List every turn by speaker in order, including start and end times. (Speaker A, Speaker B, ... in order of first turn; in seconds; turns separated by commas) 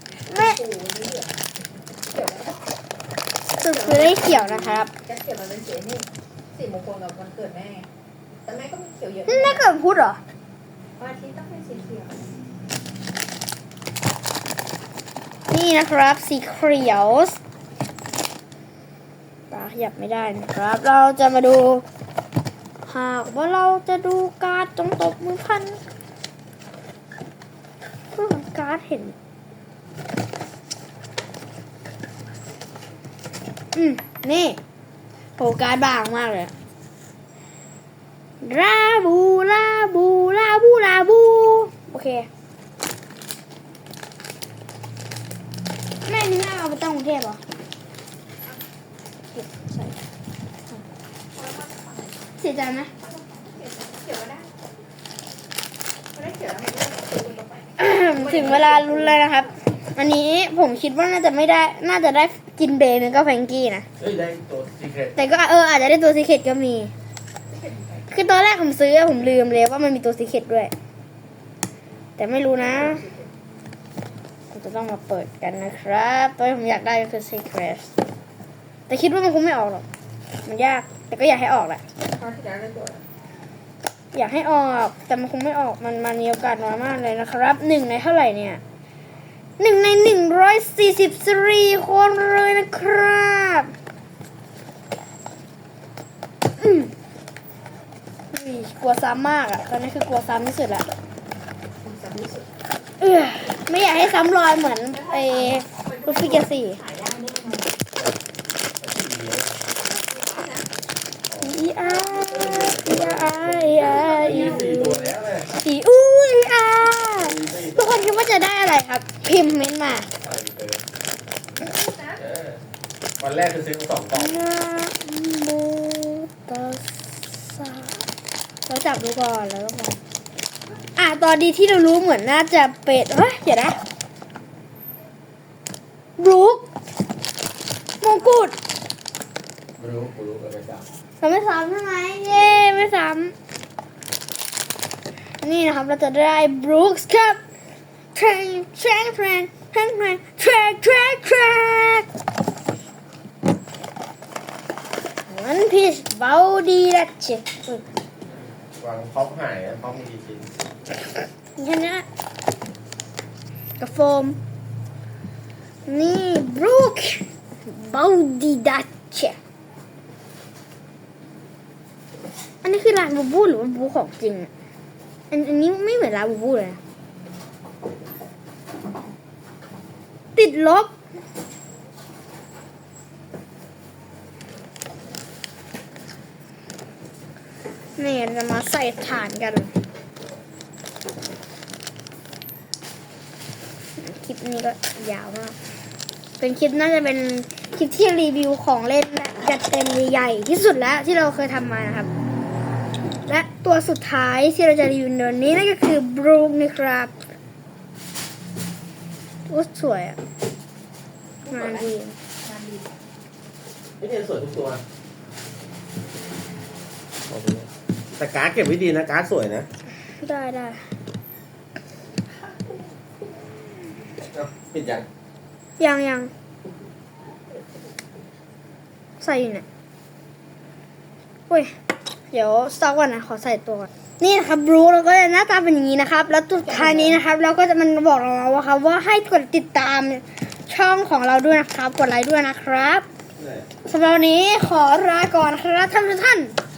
Speaker A: 0.2-1.3, Speaker B: 0.3-0.6, Speaker A: 2.1-2.5, Speaker B: 3.5-4.9, Speaker A: 3.6-7.9, Speaker A: 8.4-9.6, Speaker B: 9.3-10.2, Speaker A: 11.0-12.2, Speaker B: 15.5-17.4, Speaker B: 19.5-21.8, Speaker B: 22.9-25.8, Speaker B: 28.1-29.1, Speaker B: 33.7-34.6, Speaker B: 35.4-36.5, Speaker B: 38.4-42.3, Speaker B: 46.0-47.4, Speaker B: 49.3-50.0, Speaker A: 51.3-52.2, Speaker B: 52.4-52.9, Speaker A: 53.0-54.5, Speaker A: 56.1-59.4, Speaker B: 57.8-63.9, Speaker C: 64.0-65.2, Speaker B: 65.2-66.9, Speaker A: 67.5-68.1, Speaker B: 68.1-70.7, Speaker B: 72.2-73.1, Speaker A: 72.7-73.2, Speaker B: 74.5-77.9, Speaker B: 78.9-79.8, Speaker B: 80.4-81.8, Speaker A: 82.0-83.0, Speaker B: 84.1-88.6, Speaker B: 89.6-93.7, Speaker B: 96.6-96.9, Speaker B: 98.3-100.9, Speaker A: 101.8-102.5, Speaker B: 103.0-106.8, Speaker A: 104.9-107.7, Speaker C: 108.8-109.5, Speaker A: 109.8-110.7, Speaker C: 111.3-115.5, Speaker B: 111.4-120.1, Speaker C: 117.2-118.0, Speaker C: 120.2-120.8, Speaker A: 121.8-122.2, Speaker C: 122.1-122.6, Speaker C: 123.2-124.4, Speaker B: 124.1-128.0, Speaker B: 128.7-130.0, Speaker B: 130.9-133.8, Speaker B: 136.2-136.7, Speaker B: 138.0-138.6, Speaker C: 139.8-140.9, Speaker B: 141.2-143.3, Speaker B: 145.4-147.4, Speaker B: 148.1-152.1, Speaker B: 155.3-157.8, Speaker C: 158.7-160.5, Speaker B: 161.6-162.1, Speaker B: 163.8-164.4, Speaker B: 165.9-169.4, Speaker B: 172.6-174.5, Speaker B: 175.3-176.8, Speaker B: 180.3-180.9, Speaker B: 188.0-189.7, Speaker B: 194.0-195.6, Speaker B: 196.4-202.1, Speaker B: 203.1-207.2, Speaker B: 209.5-210.2, Speaker A: 211.4-212.9, Speaker B: 211.5-212.2, Speaker C: 214.0-214.8, Speaker C: 217.2-219.7, Speaker B: 220.1-220.9, Speaker C: 224.2-225.1, Speaker B: 225.8-226.3, Speaker B: 229.2-229.6, Speaker B: 231.5-231.7, Speaker B: 232.3-243.1, Speaker A: 236.7-237.2, Speaker C: 243.4-243.7, Speaker B: 243.8-246.5